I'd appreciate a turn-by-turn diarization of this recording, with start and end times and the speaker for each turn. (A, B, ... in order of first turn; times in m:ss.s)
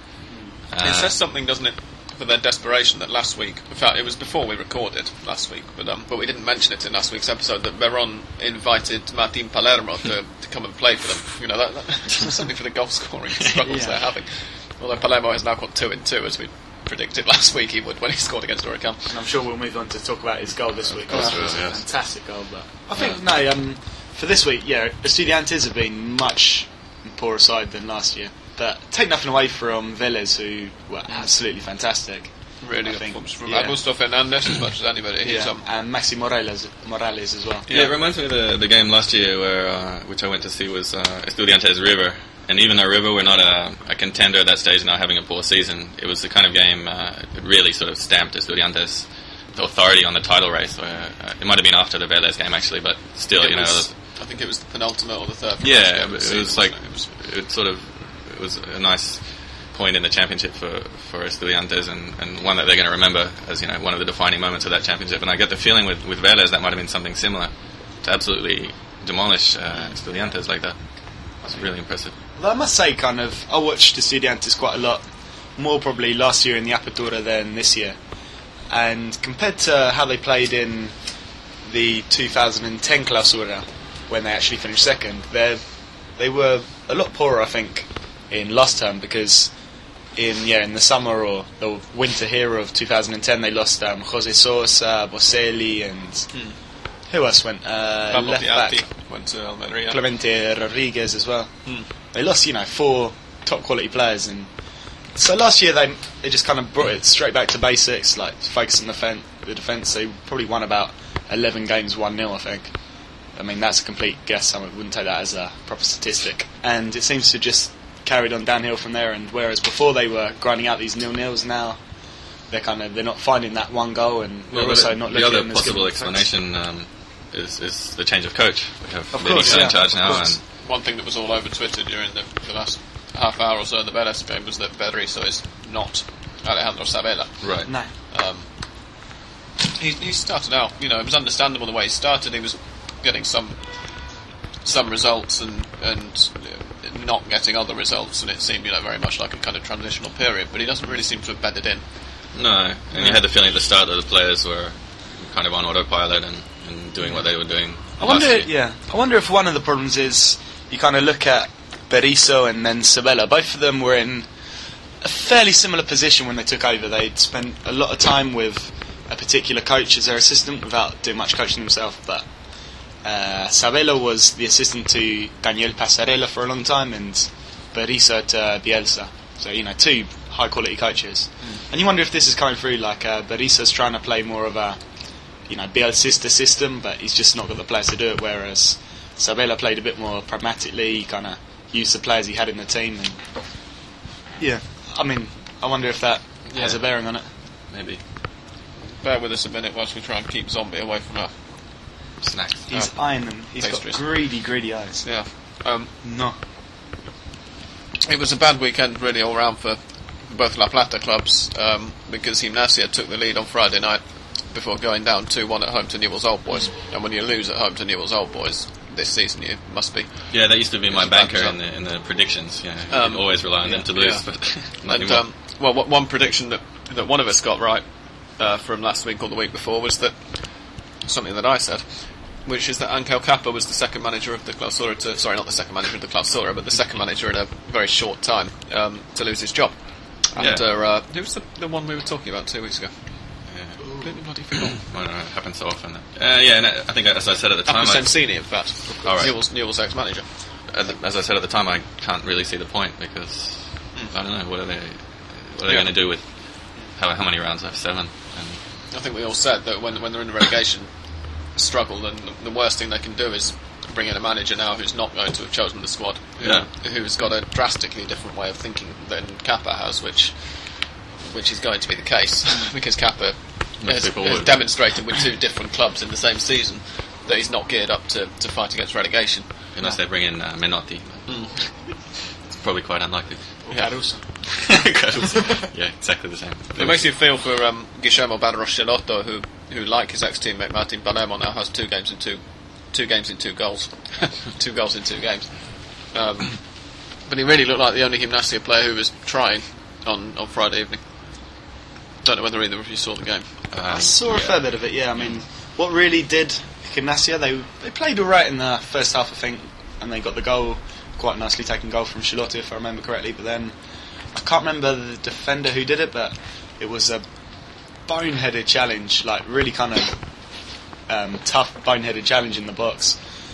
0:00.7-0:01.1 A
0:00.8-0:19.2 B
0:13.6-0:14.0 C
0:19.1-0:33.8 C
0:21.1-0:21.8 A
0:21.1-0:21.4 B
0:32.6-0:35.6 B
0:35.2-0:37.7 C
0:37.7-0:37.9 B
0:37.7-0:53.9 A
0:53.4-0:57.1 B
0:55.6-1:10.8 A
1:11.4-1:12.1 A
1:12.4-1:18.0 C
1:18.7-1:29.6 C
1:30.1-1:38.8 C
1:36.3-1:36.6 B
1:38.1-1:40.0 B
1:39.9-1:44.5 C
1:45.1-2:06.2 C
2:04.5-2:10.4 A
2:09.1-2:10.2 C
2:09.4-2:18.6 B
2:17.4-2:17.7 A
2:19.8-2:31.8 B
2:32.3-2:38.5 A
2:38.0-3:13.7 C
3:14.4-3:17.3 C
3:17.7-3:18.0 A
3:18.8-3:21.4 B
3:22.2-3:22.7 A
3:22.7-3:26.4 C
3:22.7-3:24.0 B
3:25.0-3:25.9 B
3:28.0-3:41.6 B
3:40.3-3:45.2 A
3:42.9-4:03.1 B
4:00.4-4:00.6 A
4:03.5-4:03.8 A
4:03.8-4:04.1 C
4:04.0-4:04.8 B
4:04.5-4:09.5 A
4:07.6-4:10.7 B
4:10.7-4:18.6 A
4:15.7-4:15.9 B
4:18.9-4:39.6 B
4:26.4-4:26.7 A
4:33.8-4:34.9 A
4:39.7-4:43.7 A
4:41.2-4:41.6 B
4:43.6-4:44.7 C
4:44.5-4:47.1 A
4:46.8-5:01.6 B
5:02.2-5:03.5 B
5:03.7-5:04.6 A
5:03.9-5:13.8 C
5:14.3-5:23.2 C